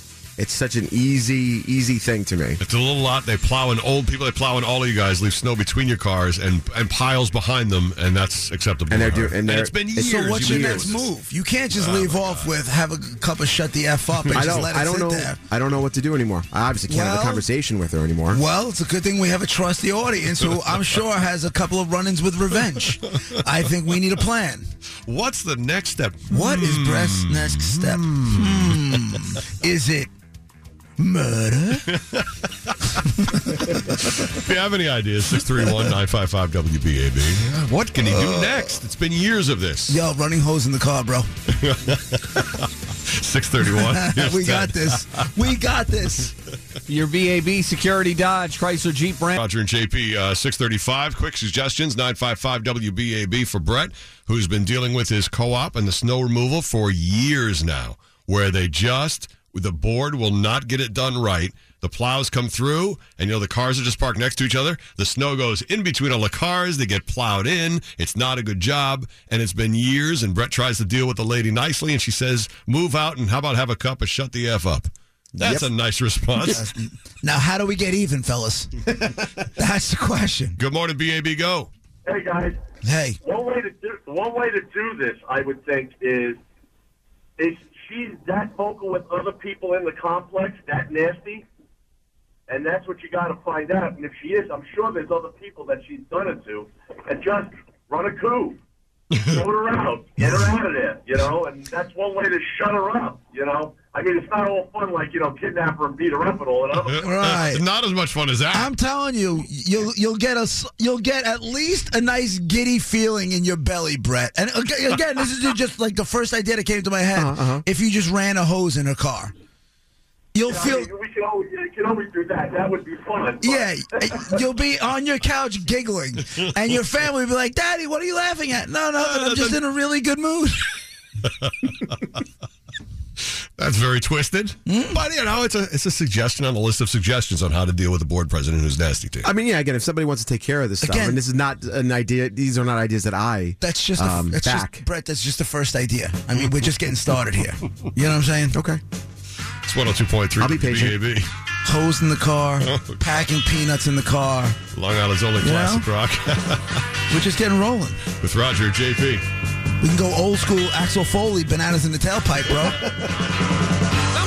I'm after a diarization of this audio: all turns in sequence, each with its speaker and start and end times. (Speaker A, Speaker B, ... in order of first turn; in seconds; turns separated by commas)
Speaker A: 0.4-2.6, Speaker B: 2.6-11.1, Speaker A: 8.9-11.0, Speaker C: 10.0-15.4, Speaker B: 11.7-12.5, Speaker B: 14.2-14.7, Speaker A: 14.3-18.4, Speaker C: 16.9-17.5, Speaker C: 18.3-24.7, Speaker B: 25.1-29.1, Speaker C: 26.3-30.1, Speaker C: 31.0-31.9, Speaker B: 31.9-40.0, Speaker C: 33.3-33.8, Speaker C: 38.0-38.8, Speaker C: 39.9-41.3, Speaker B: 41.5-45.2, Speaker C: 43.8-46.3, Speaker D: 46.9-49.4, Speaker B: 49.3-76.7, Speaker A: 75.4-75.7, Speaker C: 76.5-78.8, Speaker C: 79.5-80.6, Speaker B: 80.6-81.7, Speaker E: 82.0-82.6, Speaker C: 82.8-83.2, Speaker E: 83.2-86.4, Speaker E: 87.4-91.5, Speaker E: 92.5-98.6, Speaker E: 99.2-107.1, Speaker B: 100.2-100.5, Speaker B: 106.7-108.7, Speaker C: 107.0-107.7, Speaker C: 108.5-119.3, Speaker A: 117.2-117.6, Speaker C: 120.3-120.9, Speaker E: 120.5-123.7, Speaker C: 123.4-130.7, Speaker B: 129.0-129.6, Speaker B: 131.4-132.2, Speaker B: 133.2-139.3, Speaker C: 134.7-135.0, Speaker A: 139.2-144.8, Speaker C: 140.8-141.2, Speaker C: 143.6-148.6, Speaker A: 148.5-148.8, Speaker B: 149.6-151.3, Speaker A: 150.4-151.0, Speaker C: 151.7-154.6, Speaker B: 152.6-153.0, Speaker B: 154.7-156.8, Speaker C: 155.4-155.9, Speaker C: 157.1-158.1, Speaker B: 158.1-159.2, Speaker C: 159.8-162.9